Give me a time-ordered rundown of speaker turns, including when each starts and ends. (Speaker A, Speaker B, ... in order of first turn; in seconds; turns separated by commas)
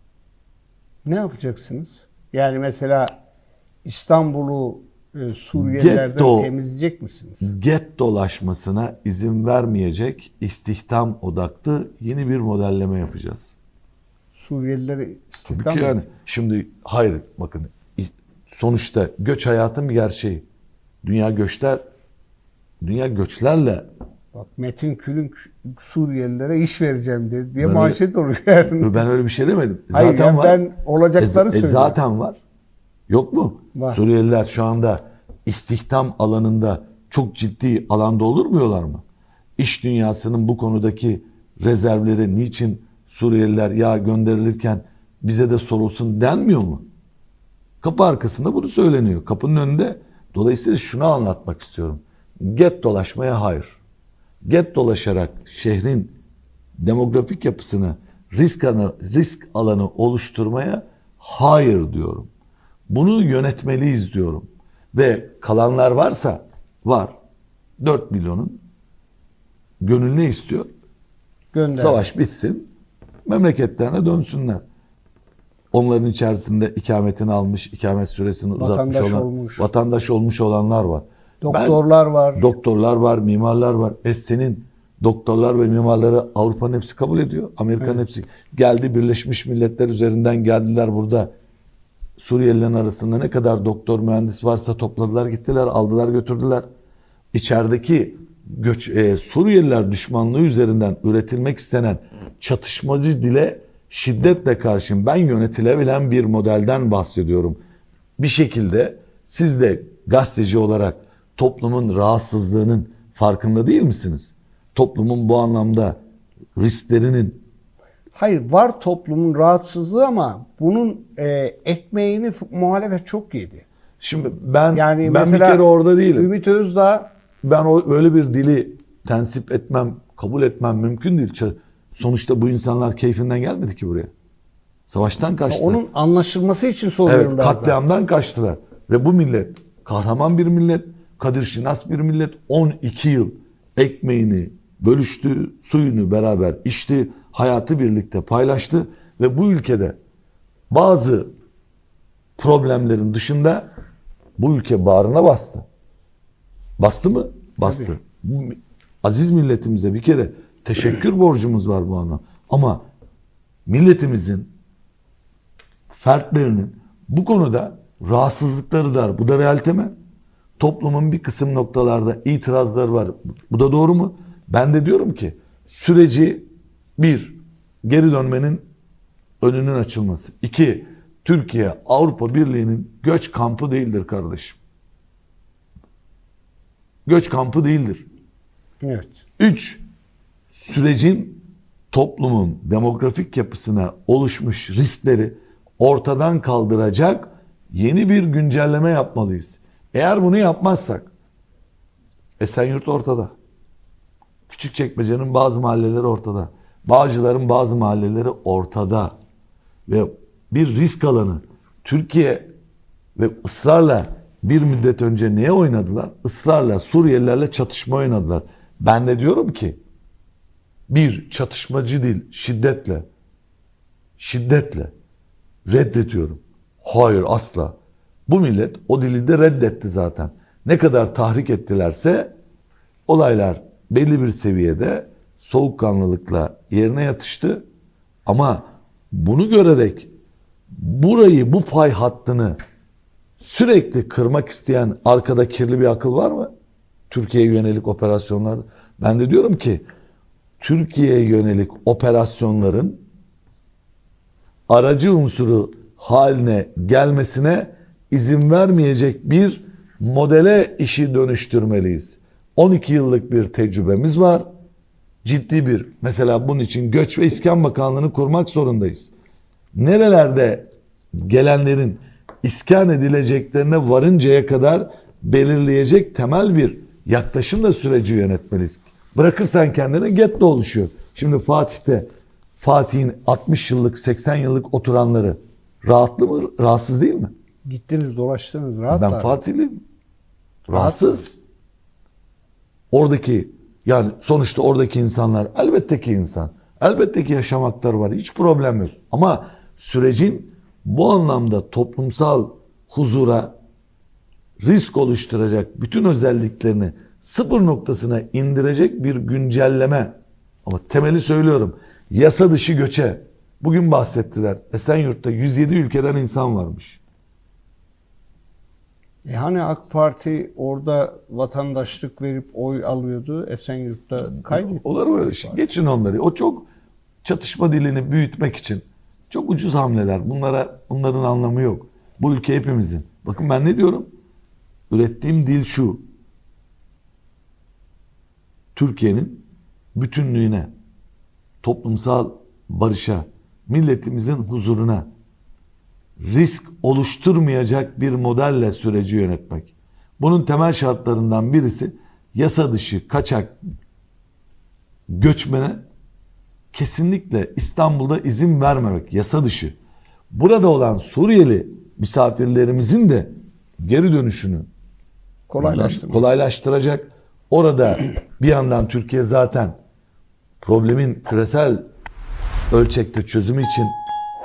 Speaker A: 1.0-3.1, Speaker A: 3.8-7.5, Speaker B: 5.5-6.5, Speaker B: 7.4-13.6, Speaker A: 14.3-16.0, Speaker B: 15.5-20.4, Speaker B: 21.0-21.8, Speaker B: 22.8-23.9, Speaker A: 24.3-28.9, Speaker B: 27.6-28.0, Speaker B: 28.7-30.6, Speaker A: 29.9-32.0, Speaker B: 31.2-32.4, Speaker B: 33.1-39.0, Speaker A: 33.7-34.0, Speaker B: 39.6-46.8, Speaker B: 47.8-53.8, Speaker B: 54.4-56.1, Speaker B: 56.8-62.3, Speaker B: 62.9-67.1, Speaker B: 67.8-68.6, Speaker B: 69.8-70.7, Speaker A: 71.5-72.1, Speaker B: 71.7-72.7, Speaker B: 73.3-74.6, Speaker B: 75.7-81.8, Speaker A: 78.6-79.6, Speaker A: 81.4-82.5, Speaker B: 82.3-91.3, Speaker B: 92.2-96.7, Speaker B: 97.3-107.6, Speaker B: 108.2-116.0, Speaker B: 116.5-117.4, Speaker A: 118.1-123.7, Speaker B: 124.0-126.3, Speaker A: 124.7-127.1, Speaker B: 127.4-134.1, Speaker B: 134.9-135.8, Speaker A: 135.5-137.8, Speaker B: 137.1-150.0, Speaker B: 150.7-151.3, Speaker B: 152.4-153.7, Speaker B: 154.4-155.6, Speaker B: 156.8-162.8, Speaker A: 157.6-157.9, Speaker B: 163.7-164.5, Speaker B: 165.9-169.9, Speaker B: 170.6-176.5, Speaker B: 177.0-178.6, Speaker B: 179.4-184.6, Speaker B: 187.1-188.1, Speaker A: 188.8-189.2, Speaker B: 189.4-189.8, Speaker B: 190.5-201.1, Speaker B: 202.4-203.3, Speaker B: 204.5-209.1, Speaker B: 209.9-212.5, Speaker B: 213.2-219.8, Speaker B: 220.9-223.0, Speaker B: 224.2-224.9, Speaker B: 225.7-227.7, Speaker B: 228.3-232.3, Speaker B: 233.1-237.6, Speaker B: 238.2-240.1, Speaker B: 240.7-242.6, Speaker B: 243.4-246.5, Speaker B: 247.1-249.8, Speaker B: 250.6-253.0, Speaker B: 254.7-264.4, Speaker B: 265.2-269.1, Speaker B: 269.7-282.1, Speaker B: 282.6-287.3, Speaker A: 287.7-289.4, Speaker B: 288.9-289.8, Speaker B: 290.7-291.3, Speaker A: 290.7-291.3, Speaker B: 292.9-303.5, Speaker B: 304.6-317.0, Speaker A: 319.2-325.5, Speaker B: 324.2-326.7, Speaker B: 327.2-334.1, Speaker B: 334.9-336.0, Speaker B: 338.7-340.7, Speaker B: 341.6-345.1, Speaker B: 346.2-353.6, Speaker B: 355.1-355.8, Speaker B: 356.7-359.8, Speaker B: 360.3-364.7, Speaker A: 365.5-366.2, Speaker B: 365.6-369.8, Speaker B: 370.6-371.9, Speaker B: 372.7-373.9